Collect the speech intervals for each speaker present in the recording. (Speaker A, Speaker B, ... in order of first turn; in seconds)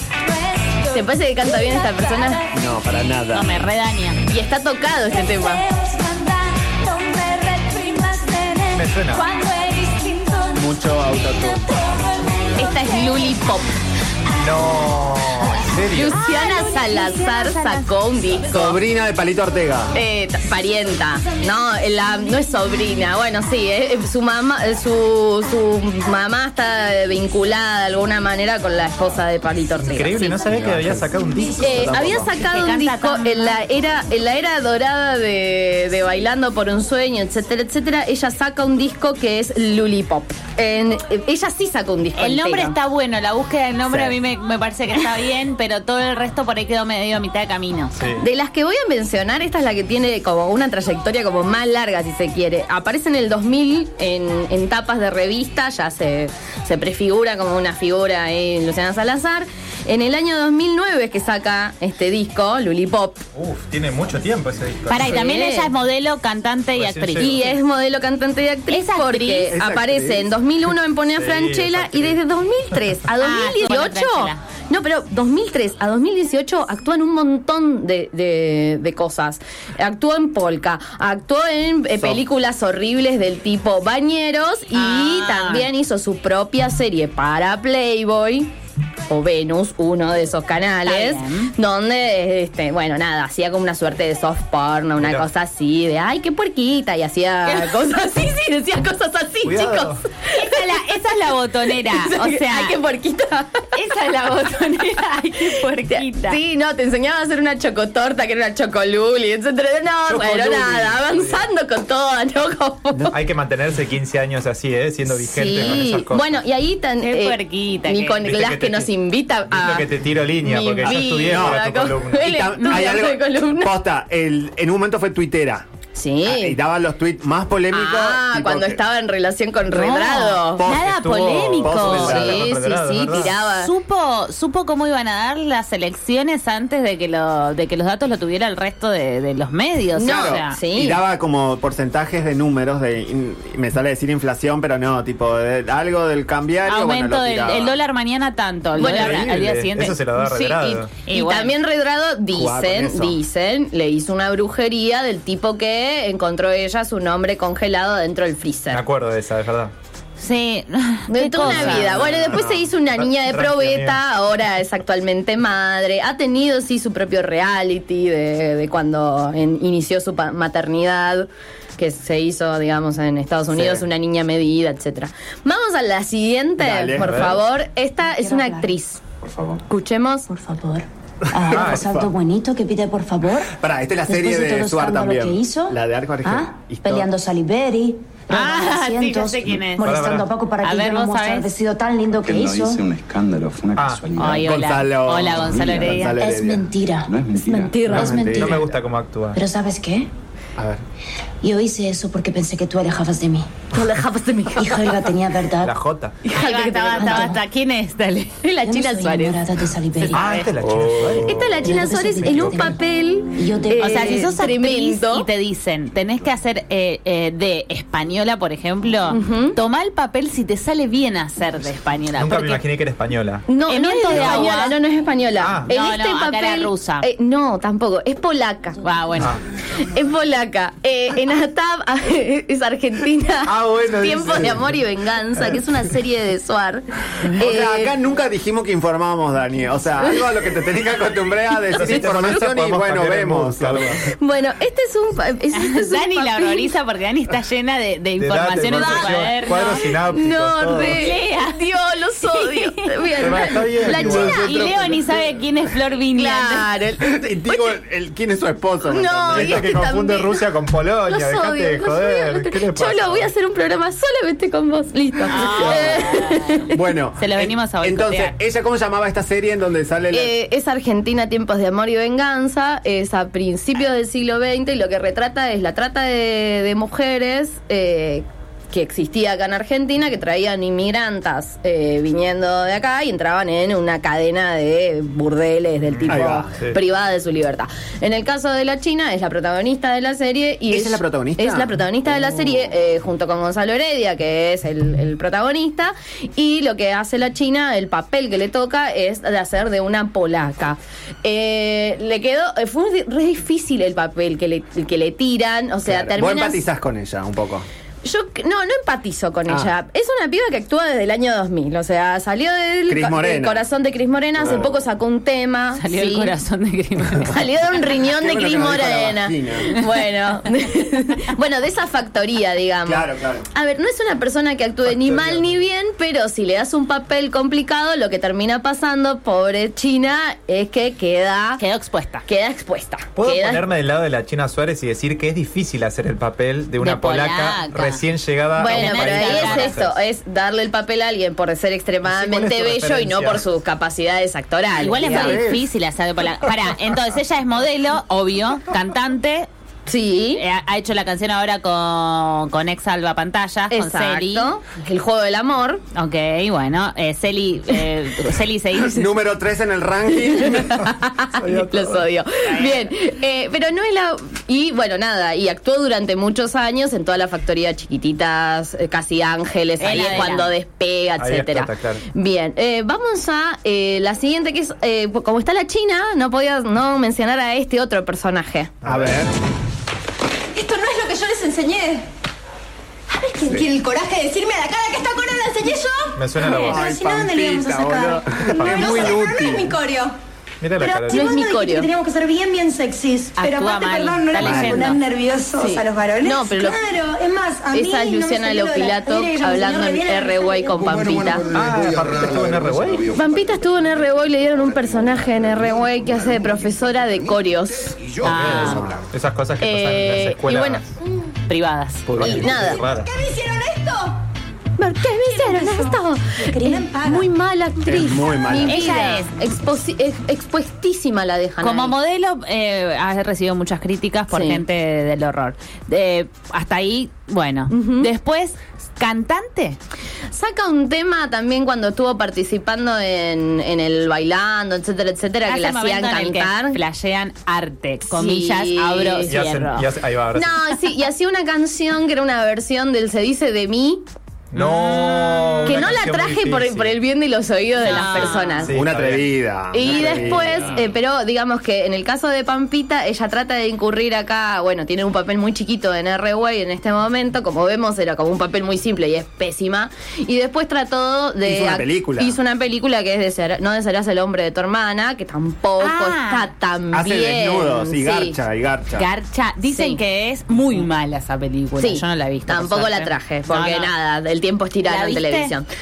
Speaker A: 0.2-2.5, 5.1-10.8, 11.4-13.3, 380.5-382.1, 383.1-390.1, 390.8-401.4, 412.5-414.2, 415.1-417.3
Speaker B: 0.9-2.4, 4.3-5.6, 12.6-13.7, 15.8-18.8, 19.9-30.5, 31.6-42.8, 48.2-63.2, 65.0-65.7, 67.2-88.5, 89.1-100.9, 101.8-103.8, 104.8-113.2, 115.1-123.8, 126.0-126.6, 127.7-130.7, 131.2-133.7, 140.0-141.0, 148.8-149.3, 150.2-158.8, 161.1-179.0, 179.7-180.3, 203.7-205.1, 206.2-207.4, 208.4-209.5, 211.2-215.3, 219.1-219.6, 223.5-228.8, 229.8-238.0, 241.7-242.4, 244.2-246.7, 248.7-254.9, 256.1-257.8, 258.9-260.4, 261.1-266.7, 270.1-306.6, 308.0-316.3, 317.2-331.6, 332.3-333.6, 338.6-345.5, 349.9-350.4, 353.7-355.8, 360.2-378.7, 391.1-391.9, 395.6-396.8, 397.7-401.6, 403.1-408.1, 409.6-410.8, 412.2-412.8, 414.8-421.9, 424.3-424.6, 427.7-428.1, 430.3-436.8, 438.1-439.4, 440.4-444.0, 445.6-448.7, 449.7-468.4, 469.7-470.0, 471.8-475.7
Speaker C: 2.5-3.5, 10.5-11.8, 18.4-20.0, 30.5-31.1, 69.5-70.3, 120.8-121.6, 122.1-125.7, 126.2-128.8, 130.6-132.5, 140.0-147.8, 152.3-153.2, 161.4-162.7, 176.6-177.3, 181.3-182.1, 183.5-187.1, 194.4-196.7, 197.9-198.8, 200.6-200.8, 210.7-211.2, 237.4-244.0, 257.0-259.8, 265.4-266.0, 266.7-270.3, 286.1-286.5, 290.7-291.8, 305.9-307.7, 312.9-313.6, 314.4-314.8, 318.1-319.7, 322.9-323.5, 345.1-345.6, 358.9-360.8, 378.9-379.3, 386.5-389.7, 394.4-394.9, 408.5-409.1, 417.9-418.9, 448.7-450.7, 461.4-462.4, 466.9-469.1
Speaker D: 3.3-4.2, 16.1-17.9, 32.4-33.6, 42.2-48.0, 64.9-67.6, 68.7-69.5, 73.2-74.4, 84.7-85.7, 90.8-91.5, 100.3-102.8, 103.8-106.4, 117.0-118.2, 129.7-132.3, 133.6-140.6, 146.7-150.0, 151.0-151.6, 160.2-162.0, 188.3-190.0, 190.6-191.5, 194.2-196.2, 206.3-208.4, 210.0-210.5, 213.8-222.6, 223.7-224.8, 225.7-227.1, 228.8-229.4, 245.6-249.8, 250.8-251.6, 252.2-253.2, 254.0-256.7, 265.3-266.7, 267.2-268.3, 315.8-317.5, 331.6-332.3, 336.8-338.0, 338.7-339.8, 344.8-349.5, 350.4-354.5, 355.9-359.1, 362.4-362.9, 369.8-370.5, 393.4-395.0, 408.2-408.9, 411.5-412.4, 418.6-419.3, 421.6-429.8, 435.5-439.9, 444.6-445.9, 447.8-448.7, 465.8-466.5, 468.9-473.9, 474.8-475.5
Speaker E: 8.7-9.3, 14.3-16.3, 29.8-32.4, 48.0-48.3, 63.4-65.2, 66.8-67.5, 71.2-72.2, 95.0-95.3, 99.4-100.0, 110.1-111.5, 113.1-116.4, 118.2-118.9, 119.5-122.4, 130.7-133.4, 148.8-150.9, 158.7-159.7, 162.8-164.0, 177.0-177.4, 181.5-181.9, 189.8-190.3, 193.8-194.1, 197.9-199.4, 205.6-206.2, 210.1-212.8, 222.2-223.5, 224.1-224.5, 225.4-225.7, 233.5-234.8, 241.7-244.0, 248.2-251.0, 253.2-255.0, 259.3-263.3, 285.9-286.8, 324.9-325.4, 333.2-340.0, 342.1-343.5, 361.4-362.1, 371.2-372.0, 378.8-379.3, 386.2-386.9, 388.6-389.2, 390.6-391.4, 401.5-403.1, 408.2-410.9, 412.1-413.1, 439.2-440.6, 444.5-447.0, 448.6-450.8
Speaker F: 178.0-178.7, 180.3-183.5, 184.1-192.8, 196.2-198.7, 199.3-200.1, 201.4-203.5, 204.6-205.8, 207.0-207.4, 208.6-210.3, 211.6-212.8, 213.3-214.3
Speaker G: 179.2-179.6, 192.2-194.6, 195.3-196.2, 197.1-197.9, 401.4-403.8, 405.3-405.9